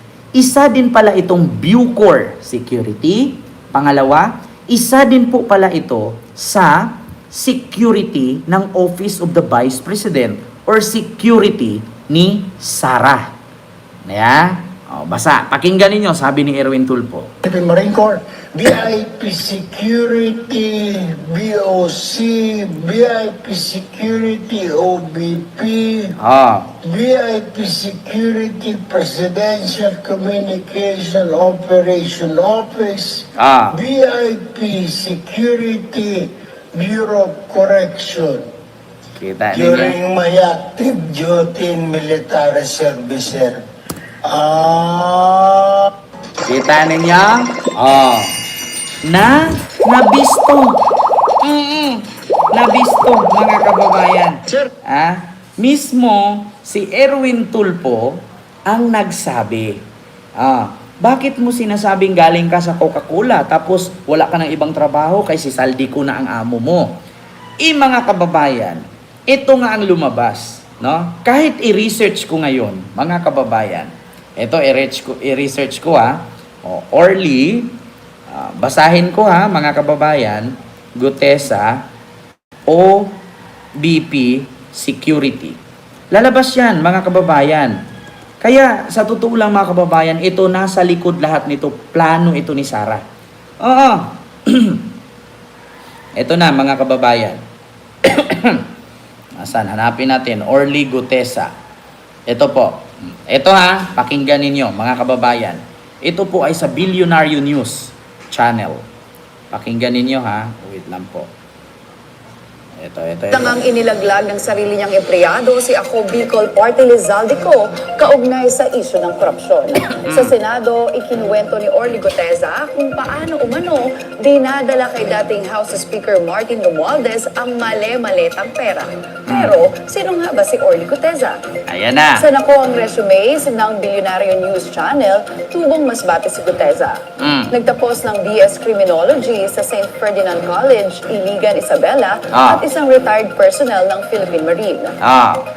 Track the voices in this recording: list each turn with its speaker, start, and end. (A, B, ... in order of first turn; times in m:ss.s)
0:00.4-0:13.3 A
0:14.1-0:17.3 A
0:17.4-0:26.1 B
0:26.2-0:26.7 A
0:26.8-0:38.5 B
0:33.4-0:33.8 A
0:39.2-0:40.0 A
0:39.5-0:43.6 B
0:44.2-0:45.9 B
0:46.4-0:48.4 A
0:49.1-0:50.8 A
0:51.4-0:59.8 A
1:00.4-1:06.9 A
1:07.6-1:17.7 A
1:18.3-1:21.8 A
1:22.7-1:23.1 A
1:23.8-1:25.6 A
1:26.1-1:27.8 A
1:28.4-1:33.0 A
1:33.6-1:34.8 A
1:36.2-1:37.4 A
1:38.0-1:38.6 A
1:39.4-1:41.5 A
1:42.3-1:48.8 A
1:49.5-1:51.3 A
1:52.8-1:53.6 A
1:53.3-2:11.4 C
2:00.0-2:00.3 A
2:09.3-2:09.5 A
2:11.7-2:12.2 A
2:12.2-2:17.0 C
2:17.2-2:17.5 A
2:17.5-2:24.9 C
2:22.3-2:22.6 A
2:25.0-2:25.4 A